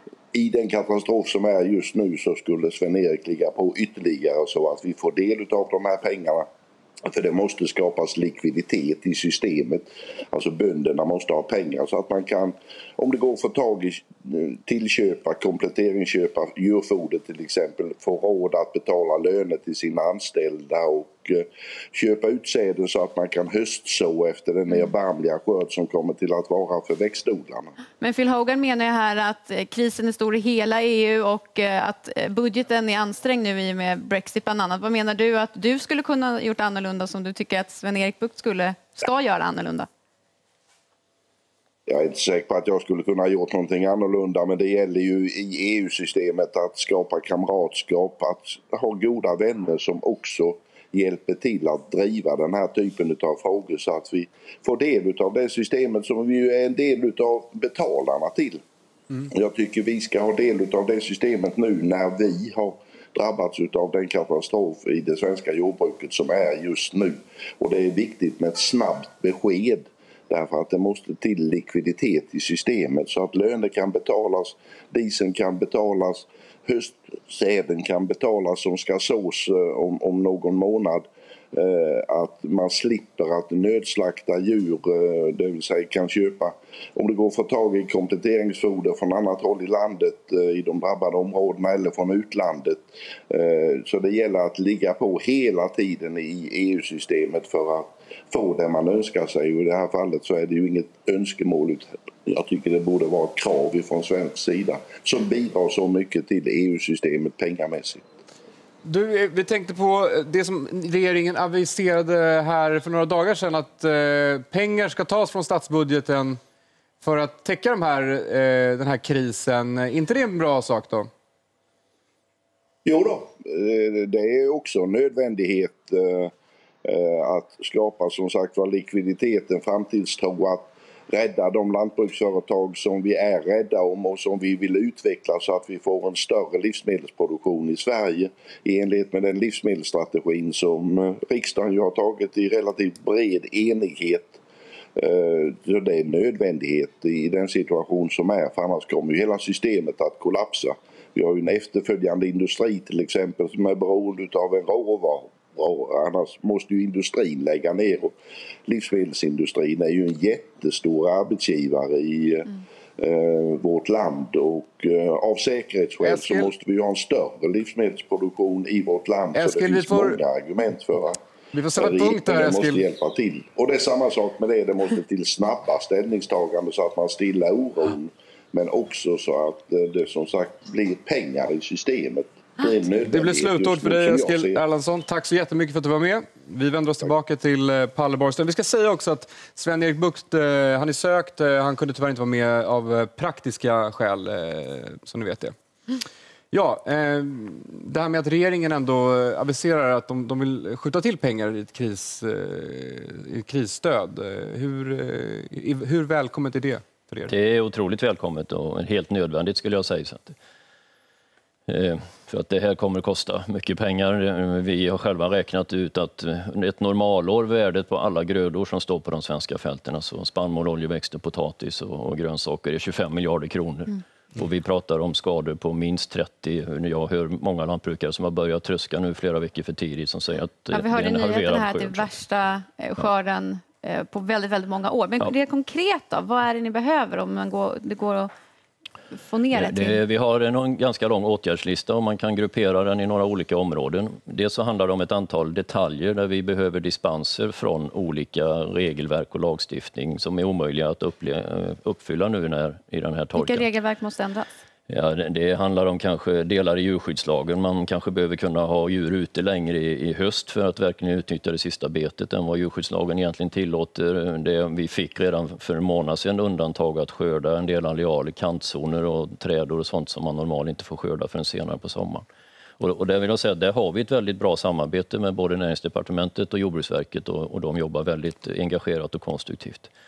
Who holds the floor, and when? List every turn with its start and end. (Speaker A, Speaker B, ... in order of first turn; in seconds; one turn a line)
Speaker A: 0.3-6.5
Speaker A: 7.0-27.7
Speaker B: 28.0-39.9
Speaker A: 41.9-58.6
Speaker A: 59.3-108.0
Speaker C: 108.8-116.4
Speaker C: 117.0-121.1
Speaker A: 122.8-126.3
Speaker A: 126.8-144.4
Speaker A: 145.0-158.1
Speaker A: 158.7-171.2
Speaker C: 166.0-166.5
Speaker C: 169.3-170.2
Speaker C: 171.5-172.8
Speaker A: 171.8-184.6
Speaker C: 183.1-195.6
Speaker C: 196.5-207.3
Speaker D: 207.3-210.4
Speaker D: 211.7-232.1
Speaker B: 230.7-238.3
Speaker B: 239.1-240.0
Speaker D: 239.5-253.7
Speaker B: 253.4-254.6
Speaker D: 254.9-272.3
Speaker D: 272.8-279.9